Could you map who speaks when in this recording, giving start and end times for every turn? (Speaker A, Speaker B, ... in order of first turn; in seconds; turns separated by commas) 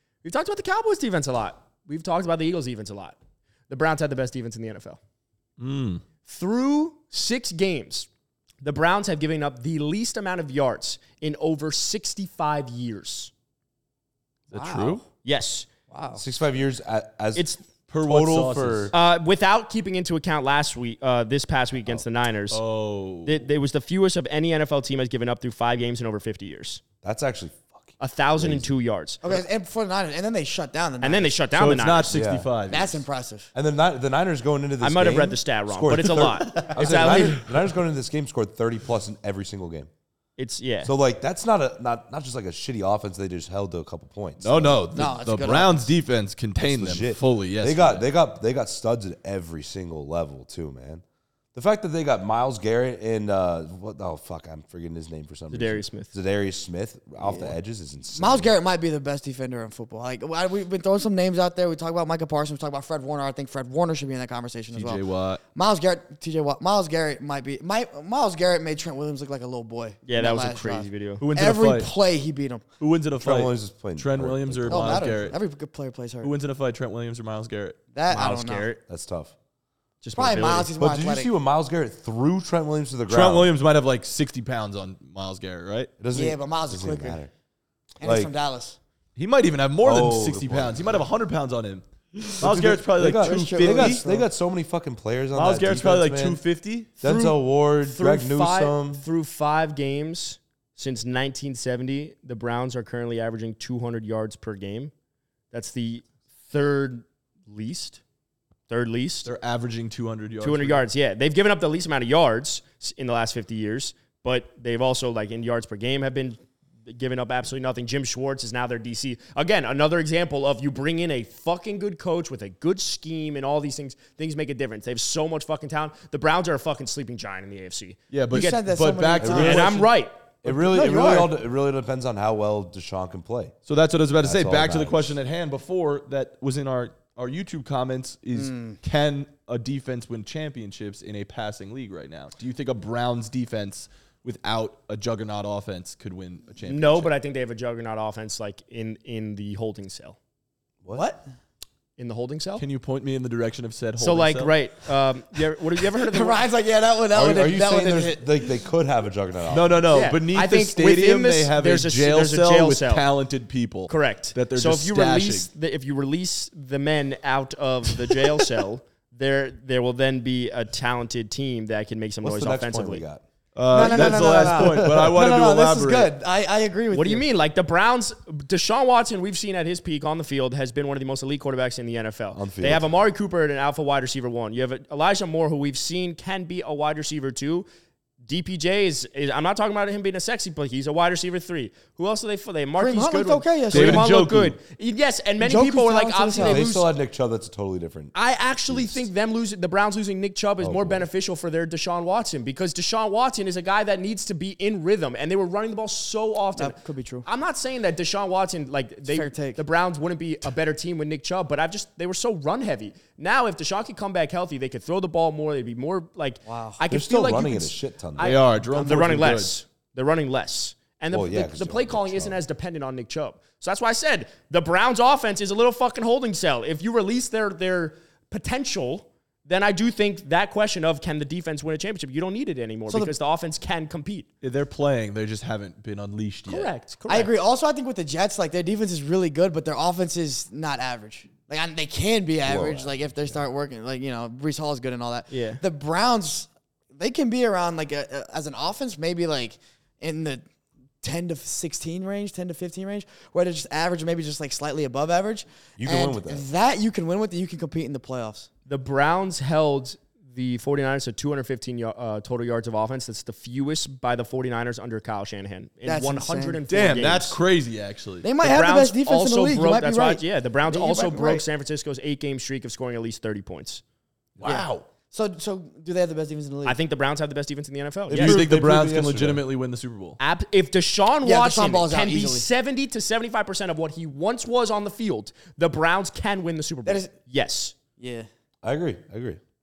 Speaker A: 0.2-3.2, Speaker A: 3.7-5.0, Speaker B: 5.6-6.0, Speaker A: 6.2-8.1, Speaker A: 8.6-13.3, Speaker B: 14.5-15.0, Speaker C: 14.5-15.0, Speaker A: 15.2-15.7, Speaker C: 15.9-16.2, Speaker D: 16.1-17.5, Speaker A: 17.3-17.6, Speaker B: 17.9-18.9, Speaker D: 18.0-18.9, Speaker A: 18.9-22.6, Speaker B: 22.5-23.4, Speaker A: 23.2-26.8, Speaker D: 27.0-28.7, Speaker A: 28.0-29.4, Speaker C: 29.2-31.4, Speaker A: 31.0-32.1, Speaker B: 31.5-33.0, Speaker D: 32.1-32.5, Speaker C: 32.7-33.5, Speaker D: 33.5-39.9, Speaker A: 34.8-37.4, Speaker B: 36.4-37.5, Speaker C: 37.0-37.3, Speaker A: 40.4-40.9, Speaker D: 40.8-44.9, Speaker B: 44.4-48.0, Speaker C: 44.9-45.9, Speaker D: 46.6-51.0, Speaker D: 51.5-58.5, Speaker A: 55.5-56.1, Speaker C: 57.2-57.5, Speaker C: 58.1-72.6, Speaker B: 64.7-65.4, Speaker A: 70.0-71.2, Speaker B: 71.2-71.9, Speaker B: 72.8-75.3, Speaker D: 73.2-75.2, Speaker C: 74.7-76.3, Speaker B: 76.2-77.8, Speaker C: 77.9-78.7, Speaker A: 78.1-78.8, Speaker D: 78.8-79.3, Speaker A: 80.0-80.7, Speaker C: 80.1-81.3, Speaker D: 80.8-83.5, Speaker B: 83.1-85.9, Speaker D: 86.0-87.3, Speaker C: 86.1-87.2, Speaker C: 88.0-88.8, Speaker D: 88.0-88.3, Speaker B: 89.2-94.0, Speaker D: 89.8-91.0, Speaker D: 92.4-96.4, Speaker C: 93.1-94.3, Speaker B: 95.3-96.9, Speaker D: 97.0-99.0, Speaker A: 97.0-104.9, Speaker A: 105.5-108.0, Speaker A: 108.7-109.3, Speaker B: 109.2-110.8, Speaker A: 110.4-128.6, Speaker B: 128.1-129.9, Speaker C: 128.3-129.8, Speaker D: 129.2-129.6, Speaker A: 129.3-130.3, Speaker D: 130.4-133.5, Speaker C: 130.5-131.3, Speaker B: 133.7-147.1, Speaker D: 134.2-135.2, Speaker C: 138.3-138.8, Speaker A: 146.6-150.2, Speaker C: 150.9-151.2, Speaker A: 152.0-152.6, Speaker B: 152.6-154.6, Speaker A: 154.0-156.4, Speaker C: 155.9-158.5, Speaker D: 157.1-159.7, Speaker B: 159.5-165.5, Speaker A: 159.9-163.1, Speaker A: 163.9-173.0, Speaker D: 172.2-173.2, Speaker B: 173.5-176.1, Speaker C: 173.7-177.2, Speaker D: 173.8-174.2, Speaker A: 176.9-187.7, Speaker D: 182.3-182.9, Speaker A: 188.2-196.9, Speaker C: 192.8-194.1, Speaker B: 193.7-194.6, Speaker C: 195.4-196.7, Speaker D: 196.4-198.1, Speaker A: 198.1-234.3, Speaker D: 198.7-199.1, Speaker D: 200.6-201.1, Speaker C: 206.6-207.2, Speaker C: 209.1-209.6, Speaker C: 216.5-216.8, Speaker D: 216.9-218.4, Speaker B: 218.2-219.5, Speaker D: 221.1-222.4, Speaker C: 232.9-233.1, Speaker B: 234.4-236.7, Speaker A: 236.5-237.3, Speaker C: 237.1-250.4, Speaker D: 242.4-242.9, Speaker A: 245.3-245.6, Speaker C: 251.0-258.5, Speaker D: 255.8-256.5, Speaker A: 258.7-267.4, Speaker C: 265.8-266.8, Speaker B: 266.7-268.3, Speaker C: 268.2-271.4, Speaker A: 268.4-273.8, Speaker B: 274.4-274.9, Speaker C: 274.4-276.8, Speaker A: 276.6-278.4, Speaker D: 278.1-279.4, Speaker B: 278.1-280.2, Speaker A: 280.2-287.7, Speaker C: 281.2-282.5, Speaker C: 286.9-287.1, Speaker C: 288.0-288.3, Speaker D: 288.6-289.4